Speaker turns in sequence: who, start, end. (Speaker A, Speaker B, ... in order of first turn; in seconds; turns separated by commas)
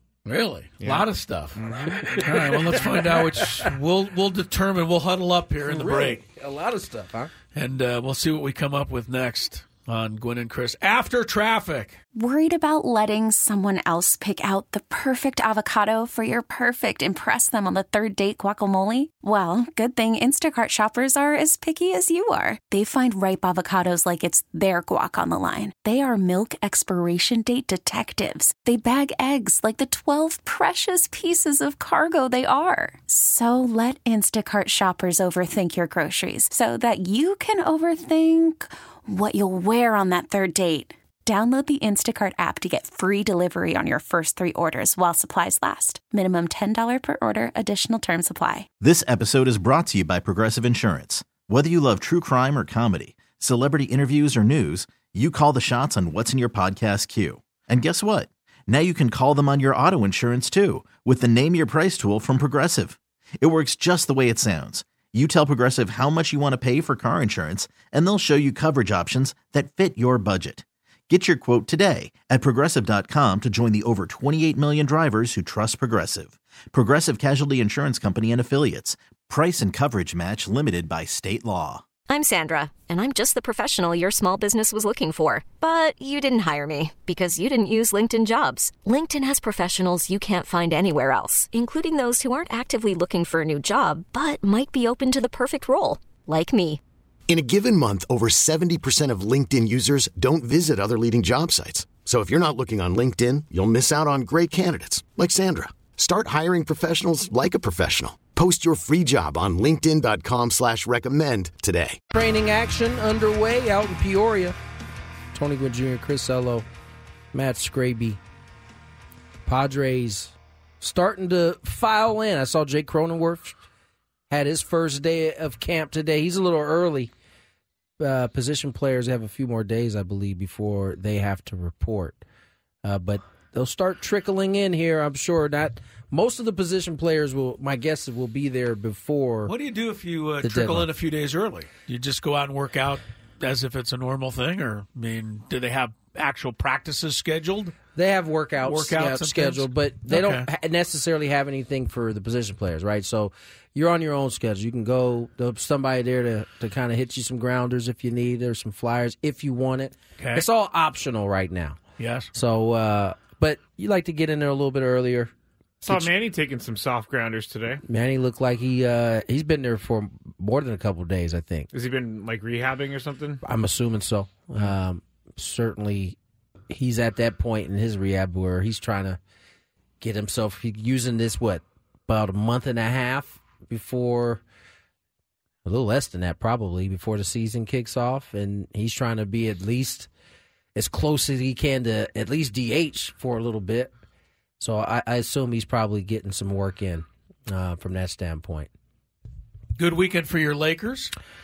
Speaker A: 0.2-6.2, Speaker B: 0.8-2.2, Speaker C: 2.0-3.7, Speaker C: 5.6-7.3, Speaker A: 7.5-12.0, Speaker D: 12.1-48.7, Speaker E: 48.8-81.8, Speaker F: 82.1-96.8, Speaker G: 97.3-112.0, Speaker C: 112.1-114.5, Speaker C: 115.3-116.7, Speaker C: 117.3-118.2, Speaker C: 119.5-123.6, Speaker C: 124.3-127.1, Speaker C: 128.0-132.2, Speaker C: 132.8-139.5, Speaker A: 139.4-147.8, Speaker C: 140.4-140.9, Speaker C: 147.9-161.8, Speaker A: 148.6-150.5, Speaker A: 160.2-160.4, Speaker A: 162.0-162.3, Speaker C: 162.3-165.3, Speaker B: 165.8-167.8, Speaker C: 165.8-166.1, Speaker C: 167.8-171.7, Speaker B: 171.7-173.4, Speaker C: 173.4-176.2, Speaker C: 176.7-179.2, Speaker C: 180.0-184.4, Speaker C: 185.6-190.1, Speaker C: 190.7-193.9, Speaker C: 194.6-198.7, Speaker A: 199.8-201.1